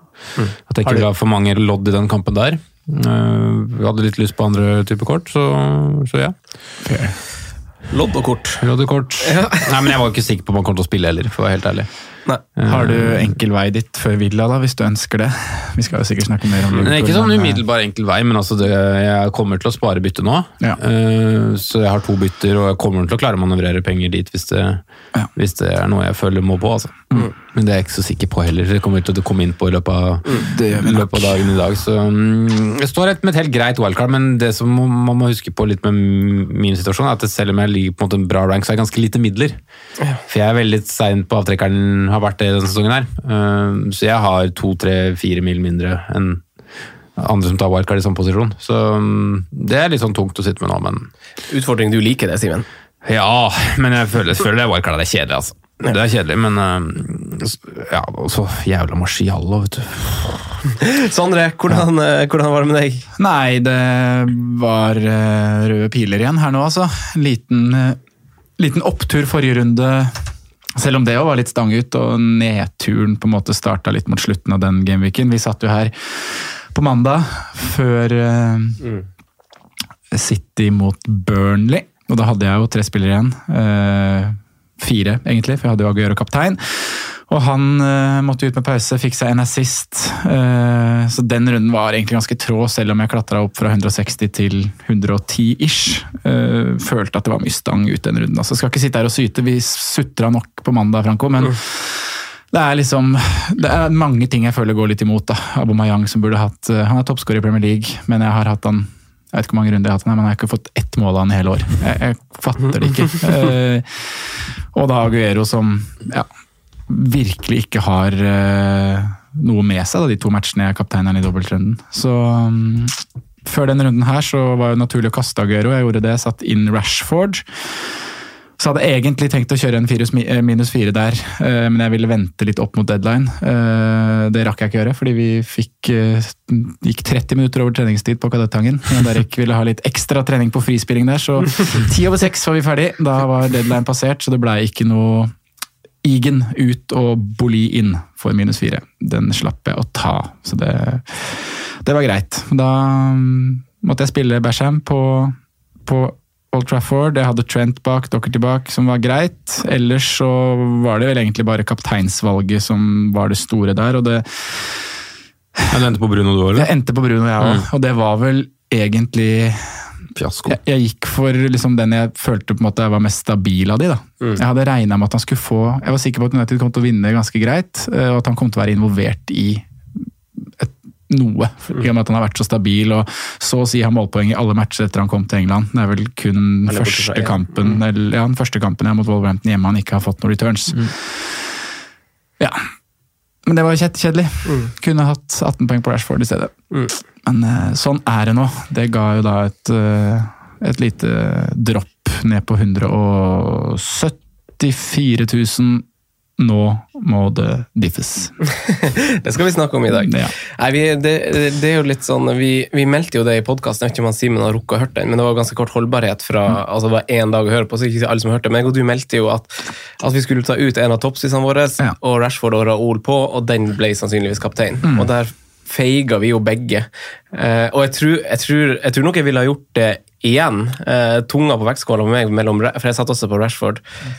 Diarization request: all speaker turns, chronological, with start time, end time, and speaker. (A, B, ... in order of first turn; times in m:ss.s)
0:00.7-0:06.4 A
0:06.8-0:07.2 B
0:07.9-0:08.6 C
0:08.6-0:13.2 A
0:09.2-0:09.9 C
0:12.6-0:17.6 B
0:16.7-0:24.8 A
0:25.3-0:39.6 A
0:30.4-0:31.5 B
0:40.3-0:46.4 A
0:47.2-0:51.1 A
0:51.5-0:52.6 C
0:53.0-1:00.6 A
1:00.8-1:03.1 C
1:03.2-1:08.0 B
1:08.6-1:18.8 B
1:20.1-1:56.3 B
1:56.9-2:07.9 B
2:08.6-2:25.3 B
2:26.0-2:44.9 B
2:45.7-2:46.7 A
2:46.5-2:49.9 B
2:50.2-2:50.6 A
2:50.4-2:59.6 B
3:00.4-3:11.5 B
3:06.7-3:07.8 C
3:12.4-3:12.6 B
3:13.4-3:16.5 B
3:14.4-3:14.7 C
3:17.2-3:25.8 B
3:26.4-3:28.4 B
3:28.5-3:53.8 C
3:29.9-3:30.3 B
3:44.8-3:45.1 B